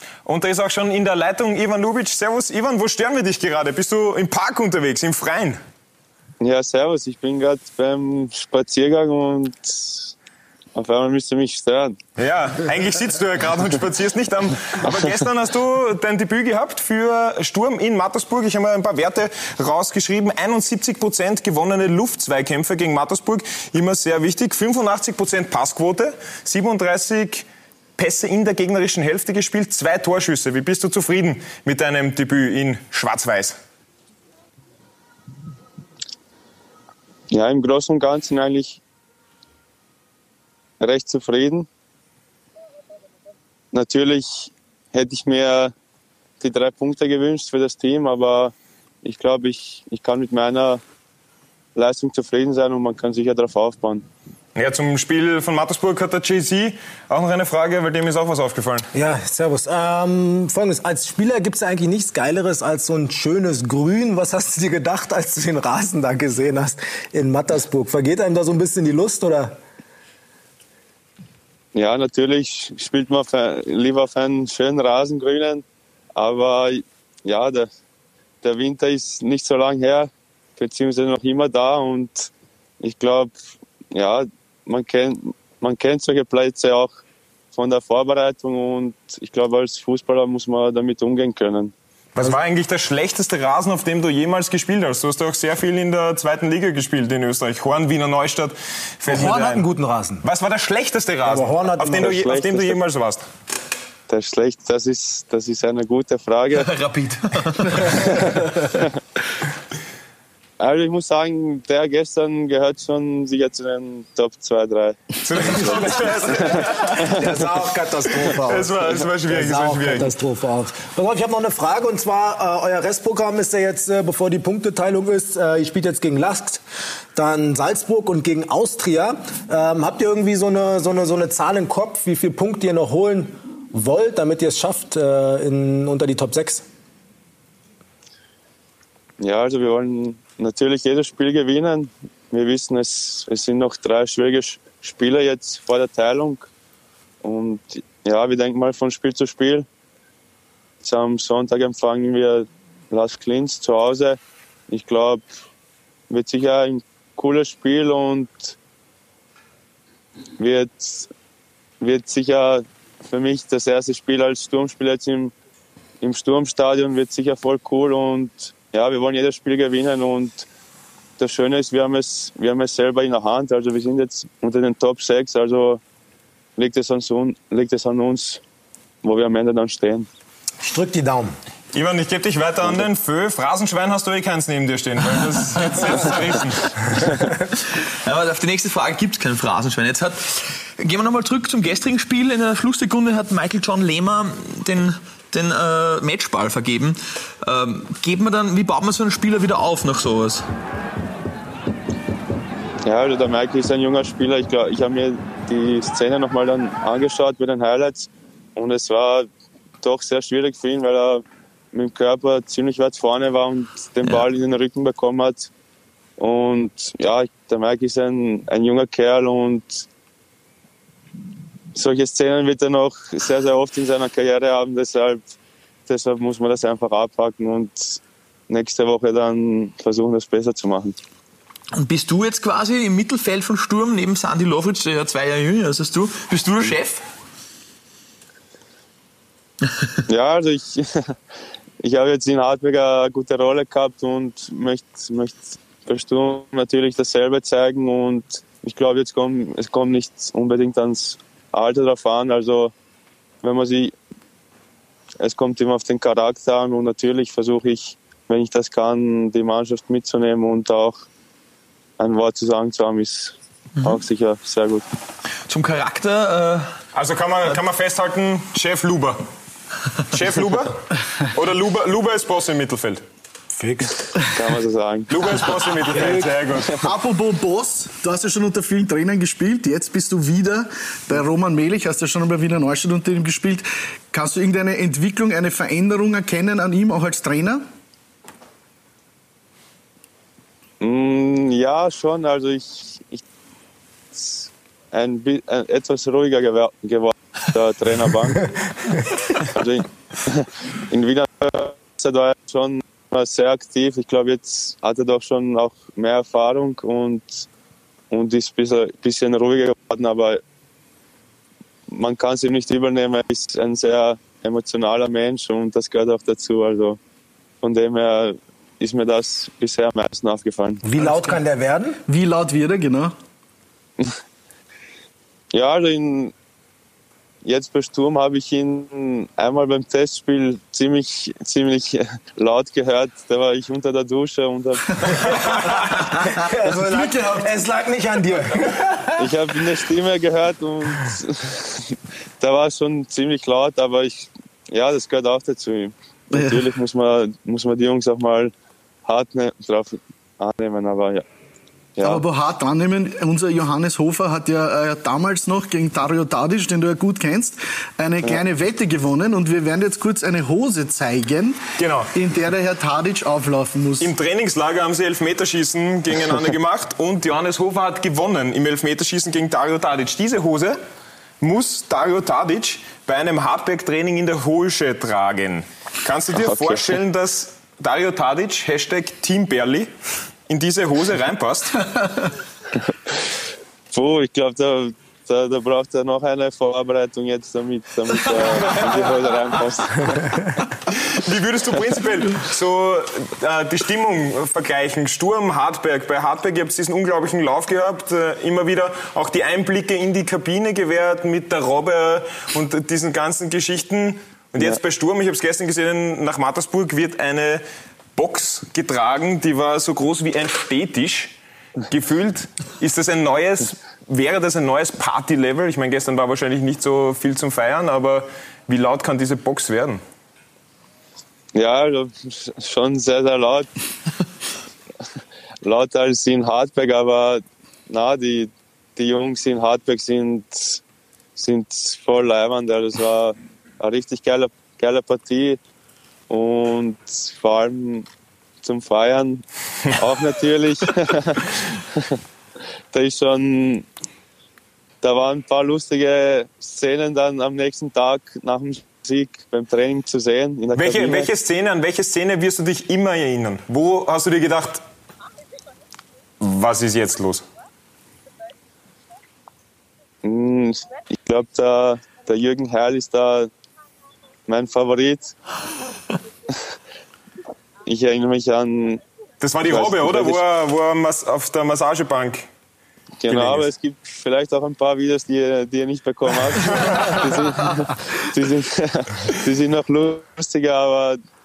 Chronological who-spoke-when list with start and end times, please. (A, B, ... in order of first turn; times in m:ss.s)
0:00.2-0:05.6 A
0:06.4-0:10.1 B
0:10.7-0:12.0 B
0:12.2-0:27.4 A
0:28.0-0:33.6 A
0:37.3-0:38.8 B
0:40.8-0:41.7 B
0:43.7-0:45.7 B
0:46.4-0:50.8 B
0:51.7-0:54.0 B
0:54.5-0:58.9 A
0:58.9-1:09.5 C
1:11.7-1:17.7 B
1:18.4-1:23.3 B
1:23.9-1:27.0 B
1:27.5-1:31.7 B
1:32.2-1:39.6 A
1:39.1-1:40.2 C
1:40.2-1:43.2 A
1:41.2-1:42.0 C
1:41.8-1:42.8 B
1:44.1-1:46.7 B
1:46.6-1:48.4 D
1:50.6-1:57.1 B
1:55.2-1:57.0 A
1:55.4-2:06.6 C
1:58.4-2:00.1 A
2:07.1-2:16.6 C
2:19.2-2:26.5 B
2:27.2-2:29.6 B
2:30.8-2:35.2 B
2:36.1-2:38.6 B
2:40.4-2:41.1 B
2:41.8-2:45.3 B
2:46.0-2:50.5 B
2:51.2-2:55.8 B
2:56.6-2:58.4 B
2:59.0-3:00.1 B
3:00.6-3:01.3 C
3:01.7-3:06.8 A
3:07.8-3:20.5 D
3:22.8-3:29.3 B
3:29.8-3:35.5 B
3:36.2-3:39.9 B
3:41.7-3:45.2 B
3:45.9-3:51.0 B
3:51.8-3:57.0 D
4:00.1-4:01.1 B
4:01.8-4:12.7 B
4:13.4-4:13.9 B
4:15.2-4:21.0 B
4:22.0-4:24.8 B
4:25.5-4:26.7 D
4:26.9-4:29.2 A
4:30.1-4:30.8 A
4:31.3-4:33.0 A
4:33.6-4:34.1 C
4:34.3-4:35.2 B
4:35.1-4:36.9 A
4:35.9-4:47.6 E
4:50.8-4:53.2 B
4:54.1-4:58.5 B
4:59.4-5:07.5 B
5:08.1-5:10.4 B
5:11.9-5:17.0 B
5:17.6-5:20.8 B
5:20.8-5:22.0 C
5:21.0-5:21.4 E
5:22.0-5:23.1 E
5:25.5-5:26.3 B
5:27.4-5:35.0 B
5:35.3-5:39.3 C
5:39.2-5:48.5 B
5:49.0-5:51.2 B
5:52.0-5:52.2 B
5:52.0-6:01.6 E
6:01.8-6:02.1 A
6:02.1-6:04.1 E
6:04.0-6:10.8 A
6:11.4-6:19.9 A
6:16.4-6:16.8 B
6:20.5-6:21.8 A
6:23.9-6:30.4 B
6:30.9-6:47.6 A
6:48.1-6:51.3 A
6:51.8-7:00.0 A
7:01.5-7:03.7 B
7:05.6-7:10.8 B
7:11.4-7:15.6 B
7:16.3-7:18.1 B
7:18.6-7:22.1 B
7:22.9-7:23.8 B
7:25.0-7:31.3 B
7:30.7-7:34.8 A
7:36.4-7:37.4 A
7:40.2-7:43.5 B
7:44.4-7:45.3 B
7:47.8-7:49.0 B
7:49.4-7:52.5 A
7:49.6-7:50.4 B
7:53.2-8:01.2 B
7:53.3-7:53.6 A
7:56.7-7:57.2 A